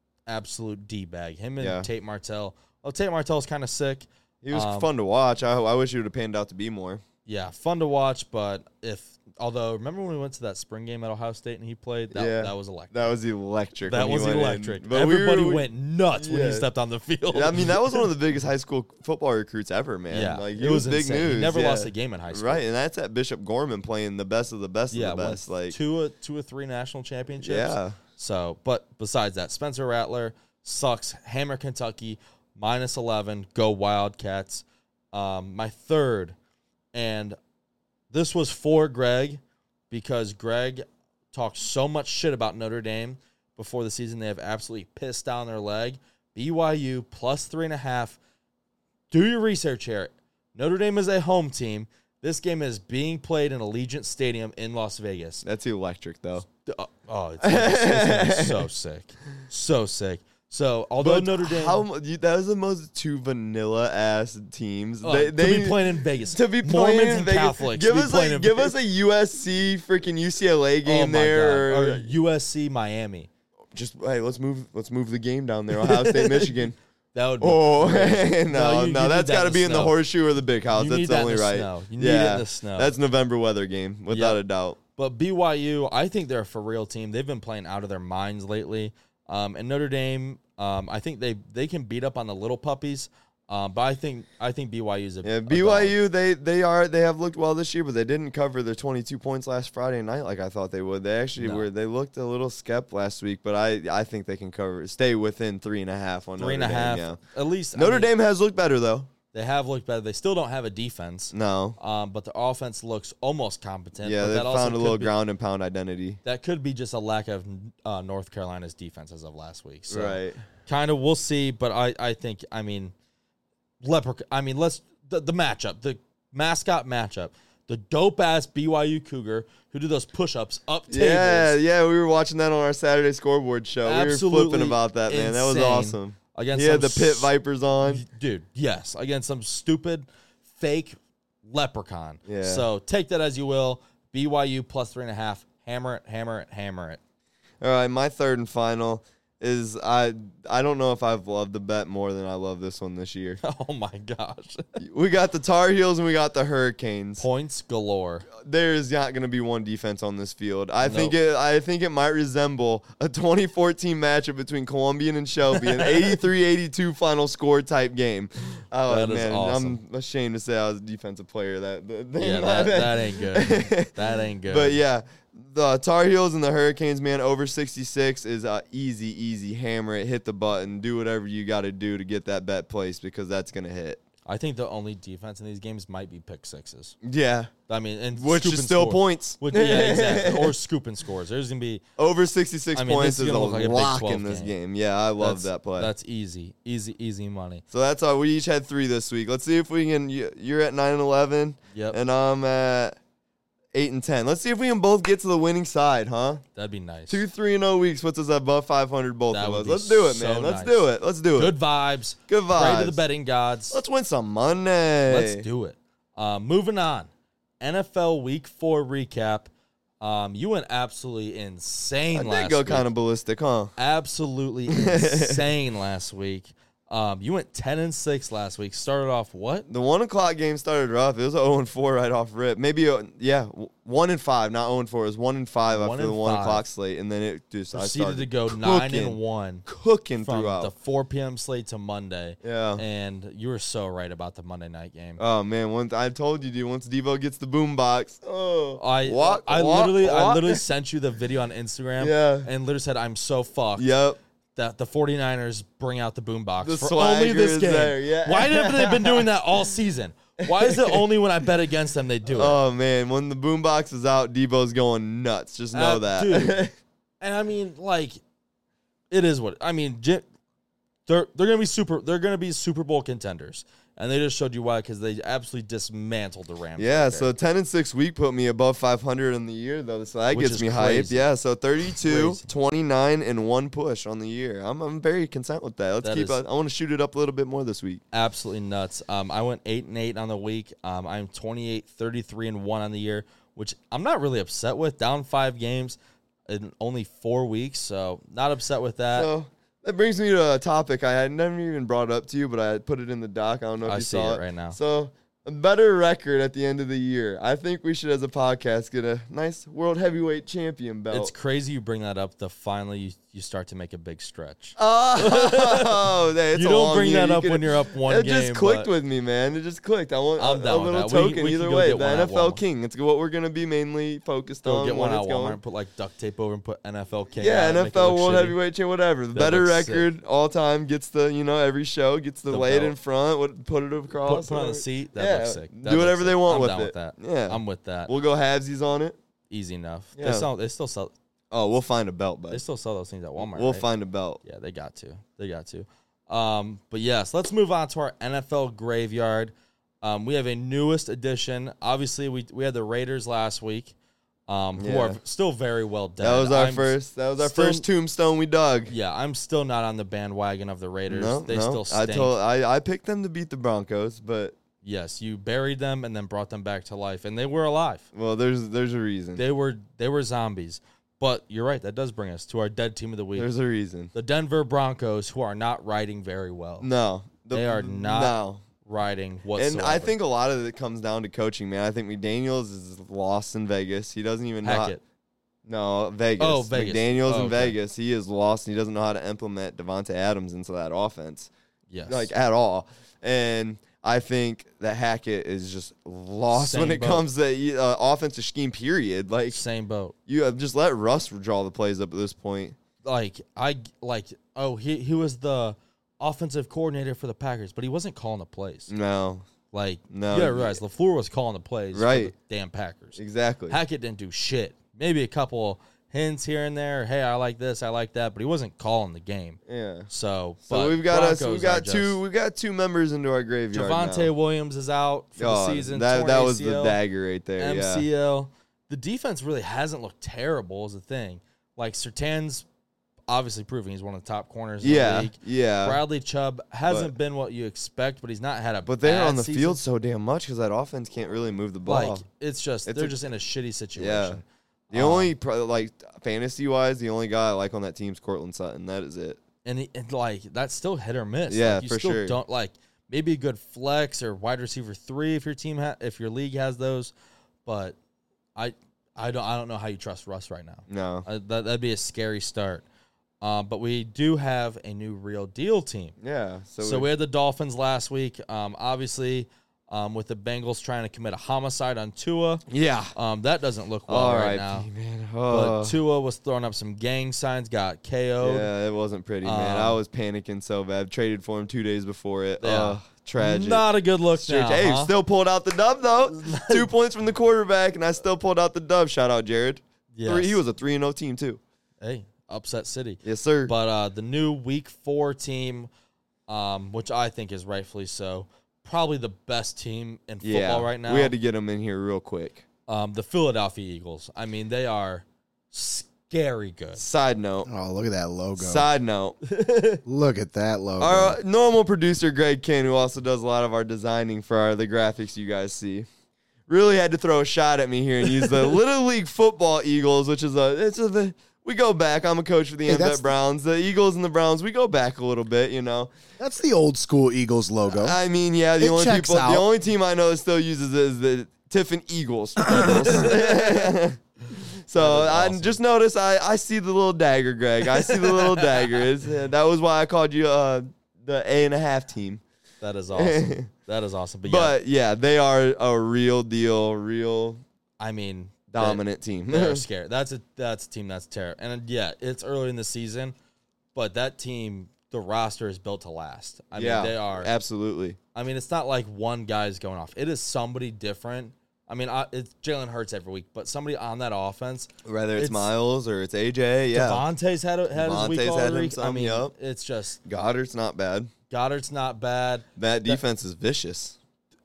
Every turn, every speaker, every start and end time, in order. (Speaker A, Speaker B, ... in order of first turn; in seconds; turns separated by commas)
Speaker A: 0.3-4.9, Speaker B: 1.6-1.9, Speaker B: 4.4-7.0, Speaker A: 7.2-13.1, Speaker B: 12.1-16.7, Speaker A: 13.9-18.1, Speaker B: 17.3-25.8, Speaker A: 20.1-22.6, Speaker A: 24.9-36.3, Speaker B: 27.4-28.0, Speaker A: 36.9-37.4, Speaker A: 38.1-48.2, Speaker A: 49.1-55.4, Speaker B: 55.4-56.5, Speaker A: 56.6-61.8, Speaker B: 57.4-58.7, Speaker B: 61.0-65.8, Speaker A: 65.0-68.7, Speaker B: 66.3-72.1, Speaker A: 70.8-73.3, Speaker B: 73.7-76.8, Speaker A: 75.7-76.5, Speaker A: 77.1-80.0, Speaker B: 77.4-84.8, Speaker A: 80.7-82.9, Speaker A: 84.1-84.4, Speaker A: 85.0-96.0, Speaker B: 95.2-107.2, Speaker A: 101.4-101.7, Speaker A: 106.4-108.1, Speaker B: 107.7-109.1, Speaker A: 109.3-115.1, Speaker B: 111.3-111.8, Speaker B: 114.0-116.2, Speaker A: 116.2-122.9, Speaker B: 119.9-120.4, Speaker A: 123.8-131.5, Speaker B: 130.9-138.0, Speaker A: 133.8-137.3, Speaker A: 137.8-147.0, Speaker B: 142.2-142.7, Speaker B: 147.6-153.4, Speaker A: 153.4-154.8, Speaker B: 154.8-157.2, Speaker A: 157.2-158.3, Speaker B: 158.3-173.9, Speaker A: 160.8-161.1, Speaker A: 168.9-169.8, Speaker A: 172.2-174.8, Speaker B: 174.5-184.0, Speaker A: 184.2-186.9, Speaker B: 187.0-187.5, Speaker A: 187.7-191.8, Speaker B: 188.1-190.6, Speaker B: 192.0-195.9, Speaker A: 192.7-194.5, Speaker A: 195.2-197.6, Speaker B: 197.7-203.0, Speaker A: 201.7-202.0, Speaker B: 203.7-206.4, Speaker A: 206.5-207.2, Speaker B: 207.1-211.5, Speaker A: 209.3-213.8, Speaker B: 212.3-213.0, Speaker B: 213.7-215.4, Speaker A: 215.1-217.1, Speaker A: 217.6-219.5, Speaker A: 220.0-222.9, Speaker B: 222.1-223.7, Speaker A: 223.8-229.7, Speaker B: 224.7-225.4, Speaker B: 229.7-240.7, Speaker A: 235.7-236.7, Speaker A: 237.7-239.7, Speaker A: 240.2-245.2, Speaker B: 242.4-242.8, Speaker B: 245.2-250.6, Speaker A: 248.8-253.9, Speaker B: 252.0-252.5, Speaker B: 253.8-254.2, Speaker A: 254.6-262.6, Speaker B: 256.6-259.3, Speaker B: 260.4-261.0, Speaker B: 262.3-266.7, Speaker A: 265.7-266.6, Speaker A: 267.2-268.2, Speaker A: 269.1-270.2, Speaker A: 271.1-277.3, Speaker B: 276.8-288.0, Speaker A: 280.3-281.2, Speaker A: 282.0-282.5, Speaker A: 286.0-286.4, Speaker A: 288.1-299.3, Speaker B: 299.1-311.3, Speaker A: 303.8-304.8, Speaker A: 311.1-318.9, Speaker B: 314.8-325.6, Speaker A: 320.4-322.6, Speaker A: 324.6-328.6, Speaker B: 327.4-339.2, Speaker A: 329.3-330.1, Speaker A: 332.5-332.9, Speaker A: 334.2-338.1, Speaker A: 339.5-341.1, Speaker B: 340.1-340.5, Speaker B: 341.5-342.6, Speaker A: 342.5-343.8, Speaker B: 343.4-344.4, Speaker A: 344.4-353.9, Speaker A: 354.5-357.9, Speaker B: 354.8-355.2, Speaker B: 356.2-358.9, Speaker A: 358.9-362.3, Speaker B: 361.1-364.6, Speaker A: 364.8-368.1, Speaker B: 368.1-369.4, Speaker A: 369.4-373.5, Speaker B: 373.4-374.1, Speaker A: 374.1-376.9, Speaker B: 376.8-378.6, Speaker A: 377.5-380.1, Speaker B: 379.6-384.9, Speaker A: 384.6-385.0, Speaker B: 385.6-391.5, Speaker A: 386.4-387.8, Speaker A: 391.9-392.3, Speaker B: 392.1-399.6, Speaker A: 396.5-397.2, Speaker A: 399.5-400.1, Speaker B: 400.3-402.8, Speaker A: 403.0-408.9, Speaker B: 408.9-409.4, Speaker A: 409.7-413.2, Speaker B: 410.1-410.8, Speaker B: 411.9-412.3, Speaker B: 413.2-413.8, Speaker A: 413.7-422.2, Speaker B: 419.7-420.1, Speaker B: 420.6-424.3, Speaker A: 423.7-427.0, Speaker B: 425.4-428.1, Speaker A: 427.6-432.6, Speaker A: 433.3-439.8, Speaker B: 434.8-436.0, Speaker B: 436.9-437.1, Speaker B: 438.9-442.2, Speaker A: 441.8-445.3, Speaker B: 442.9-443.1, Speaker B: 444.0-449.4, Speaker A: 449.6-457.1, Speaker B: 451.5-452.4, Speaker A: 457.6-458.0, Speaker A: 458.6-462.8, Speaker B: 460.9-461.3, Speaker A: 463.4-466.1, Speaker B: 466.2-467.1, Speaker A: 466.8-474.9, Speaker B: 472.7-473.1, Speaker B: 474.1-475.9, Speaker A: 475.5-478.7, Speaker B: 478.4-491.6, Speaker A: 479.4-480.0, Speaker A: 482.6-485.1, Speaker A: 486.2-486.9, Speaker A: 490.1-490.6, Speaker A: 492.0-495.9, Speaker B: 493.2-493.7, Speaker A: 496.5-501.3, Speaker B: 500.4-502.6, Speaker A: 502.9-507.0, Speaker B: 507.0-507.7, Speaker C: 507.7-508.9, Speaker B: 508.6-509.4, Speaker A: 509.4-510.0, Speaker C: 510.1-511.4, Speaker B: 511.0-516.1, Speaker B: 516.7-526.1, Speaker C: 522.9-523.3, Speaker C: 526.4-528.2, Speaker B: 527.9-542.4, Speaker C: 528.8-529.7, Speaker A: 532.7-533.7, Speaker A: 534.9-535.8, Speaker A: 538.2-539.0, Speaker A: 542.8-544.8, Speaker B: 543.1-543.7, Speaker B: 544.4-547.6, Speaker A: 548.0-553.3, Speaker B: 548.7-549.8, Speaker A: 553.9-557.5, Speaker B: 556.7-558.2, Speaker A: 558.3-565.7, Speaker B: 565.0-567.2, Speaker A: 566.9-570.2, Speaker B: 567.9-569.5, Speaker B: 570.2-571.3, Speaker A: 571.5-573.2, Speaker B: 572.8-574.2